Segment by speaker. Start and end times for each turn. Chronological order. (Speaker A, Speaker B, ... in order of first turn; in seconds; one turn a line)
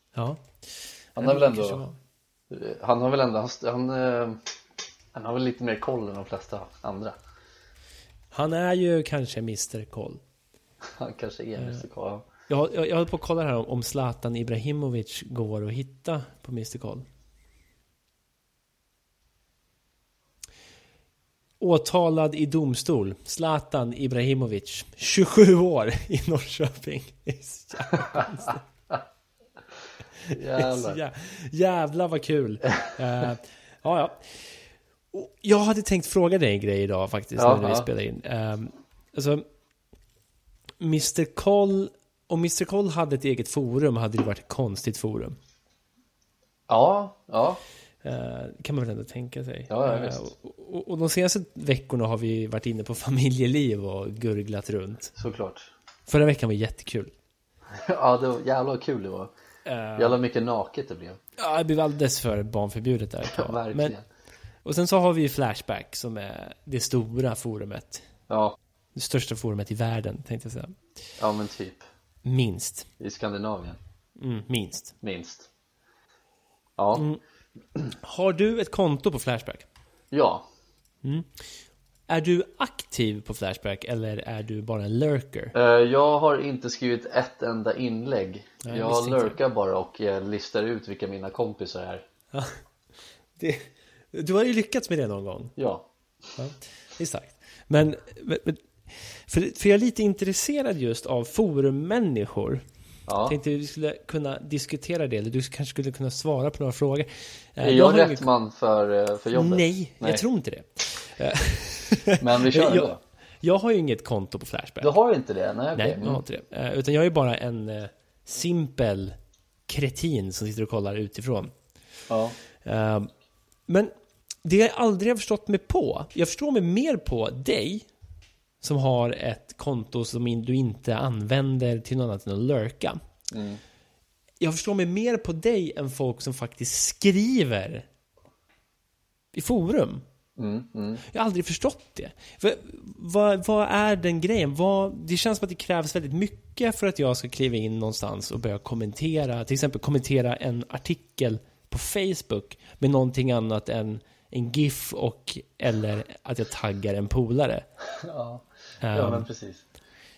Speaker A: 0.1-0.5
Speaker A: 1.1-2.0
Speaker B: 1.2-1.8
Speaker B: 2.5-4.4
Speaker B: 5.1-7.2
Speaker A: 8.3-10.2
Speaker B: 10.9-12.3
Speaker A: 11.6-11.8
Speaker A: 12.5-17.1
Speaker A: 21.6-28.6
Speaker A: 30.3-34.3
Speaker B: 30.3-31.0
Speaker A: 35.1-39.5
Speaker B: 37.4-37.9
Speaker A: 40.8-45.4
Speaker B: 46.7-47.6
Speaker A: 48.0-55.1
Speaker B: 49.7-50.3
Speaker B: 55.2-55.7
Speaker A: 56.1-57.1
Speaker B: 57.7-59.3
Speaker A: 59.7-60.2
Speaker B: 60.0-61.2
Speaker A: 61.4-64.0
Speaker B: 63.3-64.0
Speaker A: 64.7-68.1
Speaker B: 68.3-68.6
Speaker A: 69.0-70.8
Speaker B: 71.2-71.8
Speaker A: 72.2-72.9
Speaker B: 73.0-73.8
Speaker A: 74.2-75.0
Speaker B: 75.0-75.5
Speaker B: 76.8-77.1
Speaker A: 77.0-77.2
Speaker A: 78.0-79.7
Speaker B: 80.1-80.5
Speaker A: 81.0-81.3
Speaker A: 82.1-85.5
Speaker B: 85.5-92.0
Speaker A: 88.6-89.4
Speaker A: 92.3-92.6
Speaker A: 93.4-95.5
Speaker B: 95.6-95.9
Speaker A: 96.4-102.6
Speaker B: 103.1-103.4
Speaker A: 103.3-108.3
Speaker B: 107.6-110.2
Speaker A: 109.3-112.9
Speaker B: 112.2-113.0
Speaker A: 113.4-114.9
Speaker B: 114.8-116.2
Speaker A: 115.8-119.2
Speaker A: 119.7-121.5
Speaker B: 122.1-122.4
Speaker A: 122.6-123.1
Speaker A: 124.4-127.9
Speaker A: 128.6-133.0
Speaker B: 133.3-133.6
Speaker A: 134.4-137.9
Speaker A: 139.3-140.0
Speaker B: 140.4-141.0
Speaker A: 141.1-157.7
Speaker B: 158.0-159.6
Speaker A: 158.8-159.3